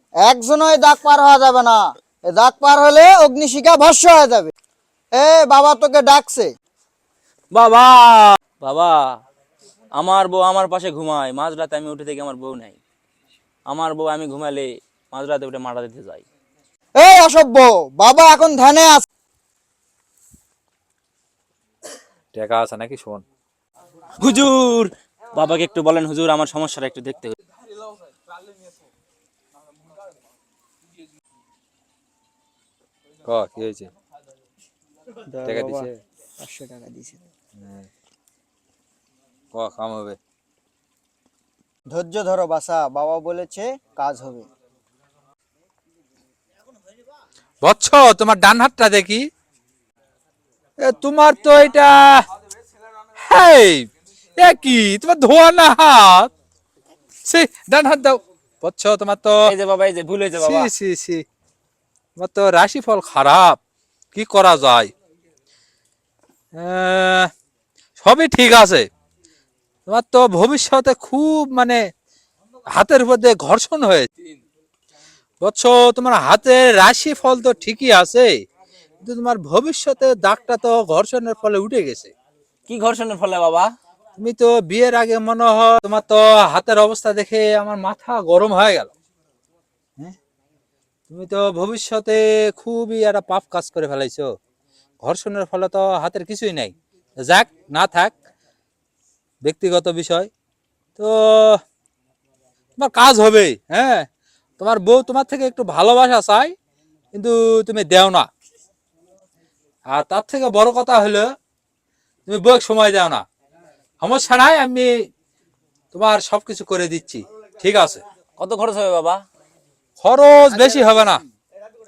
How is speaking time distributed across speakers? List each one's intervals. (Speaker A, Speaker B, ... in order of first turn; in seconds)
Speaker A: 0.2-4.5, 5.1-6.5, 17.0-19.1, 35.3-35.9, 36.4-37.1, 41.9-44.4, 120.6-120.9
Speaker B: 7.5-9.1, 9.9-12.8, 13.7-16.2, 24.2-27.3, 59.5-60.7, 82.7-83.7, 118.4-119.2
Speaker C: 22.3-23.2, 33.2-33.9, 35.4-35.9, 37.5-37.9, 39.5-40.2, 47.6-49.3, 50.8-52.2, 53.2-56.3, 57.2-59.4, 60.4-61.2, 62.1-63.6, 64.1-64.9, 66.5-67.3, 68.0-68.9, 69.9-71.8, 72.7-74.1, 75.4-78.4, 79.0-82.1, 84.2-88.9, 91.1-94.3, 95.0-98.1, 99.4-100.3, 101.0-101.6, 102.8-104.1, 104.6-106.5, 107.1-108.3, 109.9-111.3, 112.3-113.2, 114.0-115.1, 115.9-118.0, 120.0-121.2